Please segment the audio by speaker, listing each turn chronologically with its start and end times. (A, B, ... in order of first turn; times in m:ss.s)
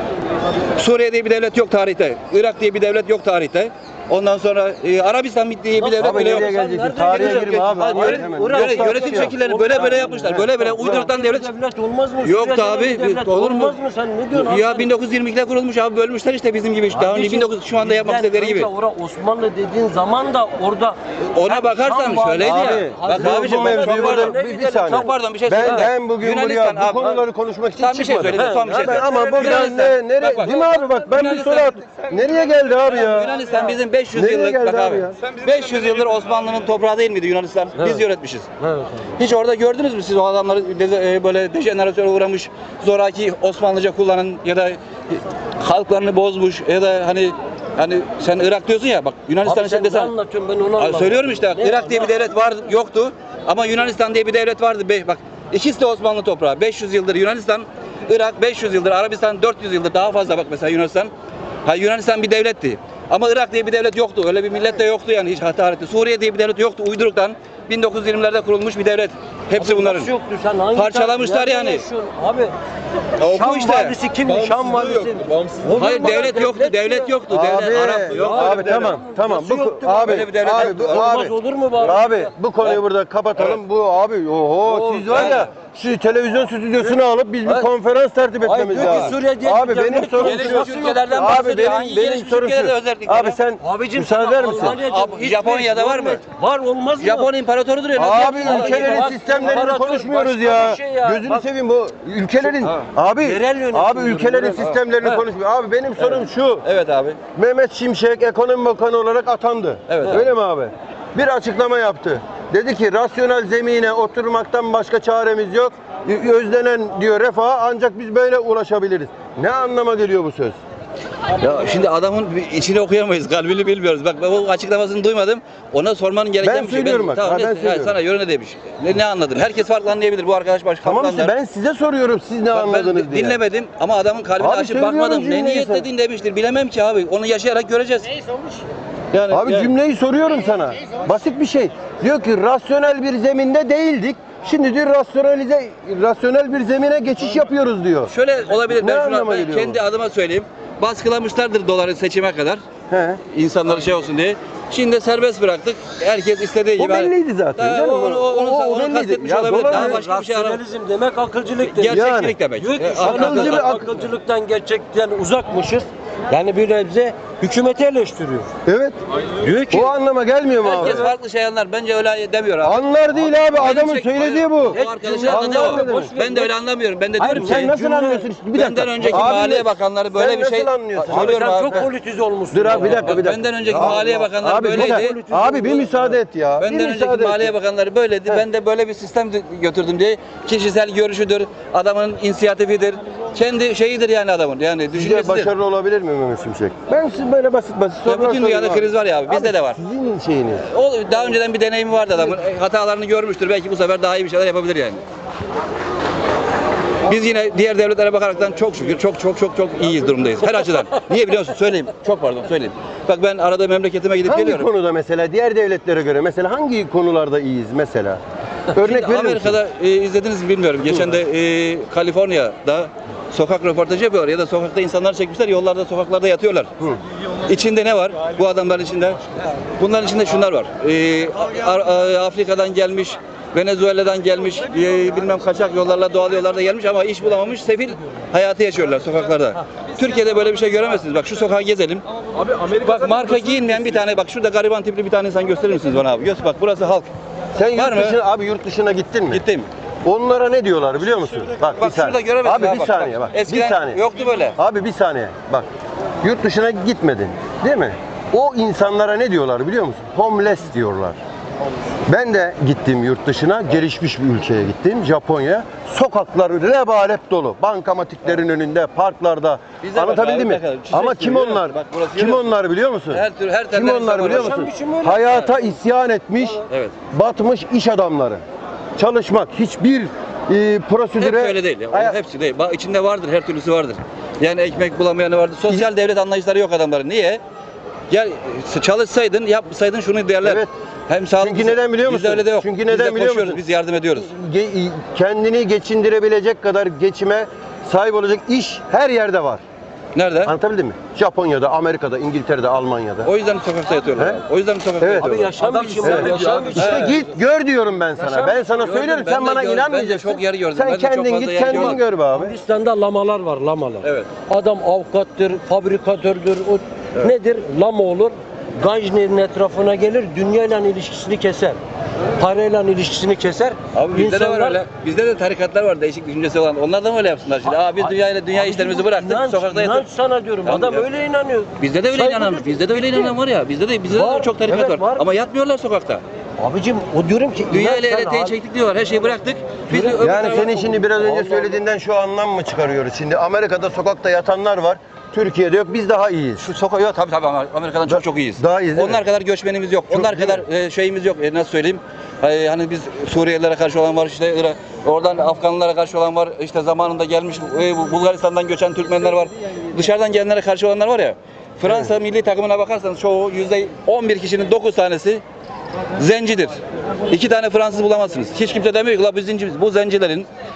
0:00.8-0:06.5 A
0:05.8-0:14.9 B
0:06.0-0:09.3 C
0:07.0-0:11.5 A
0:12.2-0:13.8 A
0:14.3-0:18.7 A
0:16.9-0:25.9 B
0:21.4-0:27.2 A
0:22.4-0:33.4 C
0:27.8-0:32.0 A
0:28.3-0:29.7 B
0:32.9-0:38.5 A
0:34.1-0:35.2 C
0:37.8-0:38.0 B
0:38.6-0:39.1 B
0:39.2-0:50.1 A
0:49.4-0:52.1 B
0:50.8-1:01.1 A
1:01.7-1:10.1 A
1:09.6-1:12.6 B
1:10.7-1:11.8 A
1:13.2-1:14.5 A
1:13.3-1:17.1 B
1:15.8-1:18.9 A
1:17.3-1:34.8 C
1:17.7-1:22.3 B
1:20.0-1:21.0 A
1:24.6-1:25.4 B
1:25.1-1:25.5 A
1:26.8-1:27.7 B
1:28.4-1:31.4 B
1:28.8-1:29.1 A
1:30.2-1:33.4 A
1:33.6-1:37.3 B
1:34.7-1:36.2 A
1:37.0-1:39.4 A
1:38.0-1:46.6 C
1:38.4-1:41.4 B
1:43.2-1:44.7 B
1:46.0-1:47.2 A
1:47.4-2:00.6 C
1:49.9-1:50.2 A
2:01.4-2:11.3 A
2:06.4-2:08.0 C
2:10.8-2:13.4 C
2:12.5-2:18.2 A
2:14.4-2:15.9 C
2:19.1-2:19.7 A
2:19.3-2:28.1 C
2:28.1-2:32.6 A
2:28.7-2:29.8 C
2:32.9-2:33.2 C
2:33.3-2:40.6 A
2:36.8-2:40.0 C
2:39.6-2:42.0 B
2:41.6-2:43.7 A
2:41.9-2:42.4 C
2:42.6-2:48.5 B
2:43.0-2:44.0 C
2:48.7-2:49.0 C
2:49.4-2:49.9 B
2:49.7-2:51.1 C
2:50.6-2:57.8 A
2:52.6-2:56.1 C
2:54.7-2:56.5 B
2:57.2-2:58.3 B
2:57.2-3:01.8 C
2:58.5-3:01.9 A
3:01.1-3:06.1 B
3:02.5-3:07.5 C
3:02.7-3:05.2 A
3:06.6-3:15.5 A
3:14.9-3:20.7 C
3:18.1-3:19.8 A
3:20.7-3:25.0 A
3:27.1-3:34.7 A
3:34.2-3:38.2 C
3:38.7-3:39.6 C
3:38.8-3:46.7 A
3:47.5-3:49.2 A
3:49.8-4:02.0 A
4:02.6-4:07.1 A
4:07.6-4:09.4 C
4:07.8-4:08.2 A
4:09.3-4:09.7 A
4:10.0-4:14.0 C
4:11.8-4:14.6 A
4:14.6-4:15.7 C
4:16.2-4:21.2 C
4:22.1-4:38.4 C
4:29.8-4:32.4 A
4:33.1-4:34.7 A
4:34.2-4:35.4 B
4:36.7-4:36.9 A
4:39.0-4:42.2 C
4:41.2-4:47.4 A
4:48.1-4:54.3 A
4:50.4-4:50.7 C
4:51.4-4:53.6 C
4:54.2-4:59.6 C
5:00.2-5:00.5 A
5:00.4-5:03.3 C
5:03.2-5:07.2 A
5:04.2-5:04.4 C
5:05.0-5:05.3 C
5:05.2-5:07.3 B
5:06.0-5:12.5 C
5:08.2-5:08.6 B
5:08.8-5:12.0 A
5:11.7-5:21.8 B
5:14.0-5:14.3 A
5:22.4-5:24.8 B
5:23.9-5:30.1 A
5:28.0-5:33.3 B
5:30.6-5:31.1 A
5:31.8-5:36.2 A
5:34.1-5:35.2 B
5:36.6-5:38.6 B
5:37.7-5:40.7 A
5:39.9-5:46.7 C
5:40.2-5:41.6 B
5:46.6-6:05.4 A
5:48.1-5:49.2 C
5:50.1-5:50.6 C
6:01.8-6:02.1 C
6:06.2-6:10.5 A